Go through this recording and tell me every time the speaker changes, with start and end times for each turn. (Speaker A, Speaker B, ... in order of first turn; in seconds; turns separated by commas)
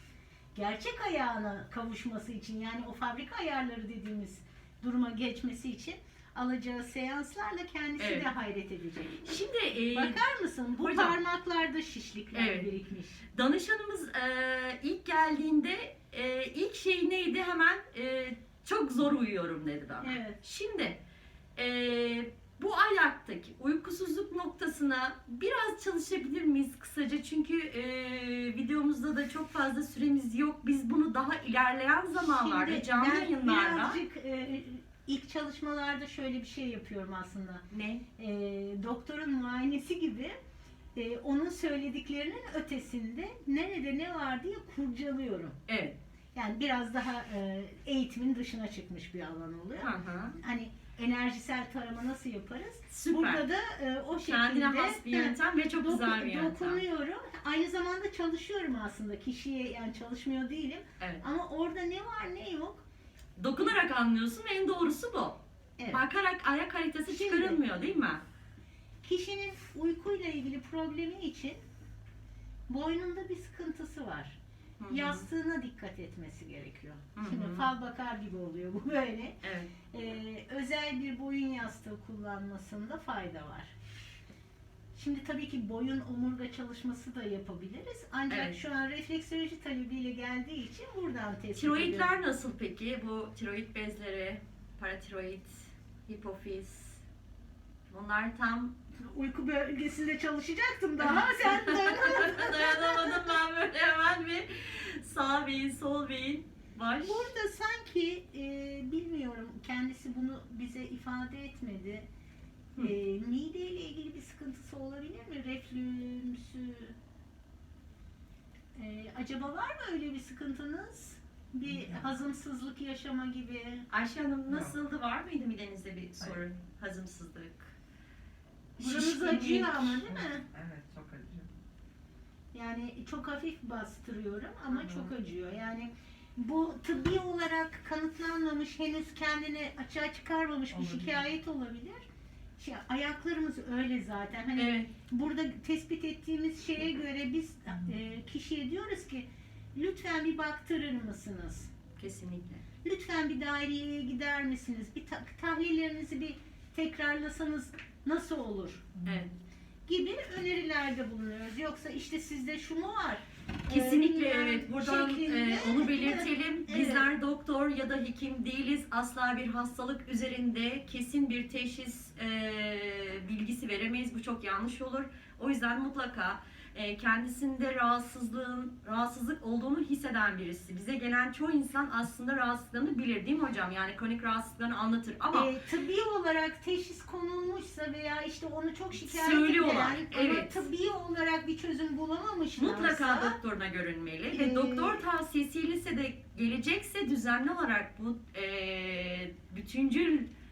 Speaker A: 0.5-13.2, Speaker B: 8.0-8.3, Speaker B: 9.2-10.2, Speaker B: 10.8-11.2, Speaker B: 12.3-12.7, Speaker B: 13.3-21.0, Speaker A: 20.0-20.4, Speaker B: 21.6-34.0, Speaker A: 32.2-37.6, Speaker B: 37.7-38.0, Speaker A: 38.2-40.4, Speaker A: 41.0-45.6, Speaker B: 45.7-46.0, Speaker A: 46.4-62.9, Speaker B: 49.8-50.4, Speaker B: 52.9-53.4, Speaker B: 54.2-56.8, Speaker B: 63.4-68.2, Speaker A: 65.8-66.0, Speaker A: 67.1-67.8, Speaker A: 69.0-71.6, Speaker A: 72.7-74.4, Speaker B: 74.8-75.2, Speaker A: 74.9-79.4, Speaker B: 77.2-77.7, Speaker B: 79.4-79.7, Speaker A: 79.9-83.7, Speaker A: 84.9-92.1, Speaker B: 88.3-88.6, Speaker B: 91.5-97.0, Speaker B: 97.9-98.7, Speaker A: 99.0-103.4, Speaker B: 101.1-107.3, Speaker A: 107.0-112.1, Speaker A: 112.8-117.0, Speaker A: 118.8-123.9, Speaker C: 121.7-122.1, Speaker B: 123.9-127.7, Speaker B: 128.8-130.0, Speaker A: 128.8-130.4, Speaker C: 130.1-131.5, Speaker A: 132.5-142.0, Speaker C: 134.8-135.1, Speaker C: 140.7-141.2, Speaker A: 142.6-151.7, Speaker B: 144.6-144.9, Speaker B: 152.0-152.6, Speaker A: 152.8-158.9, Speaker B: 159.1-159.3, Speaker A: 159.9-167.1, Speaker B: 163.7-185.5, Speaker A: 185.3-193.4, Speaker B: 189.0-190.6, Speaker B: 192.6-200.3, Speaker A: 194.3-195.0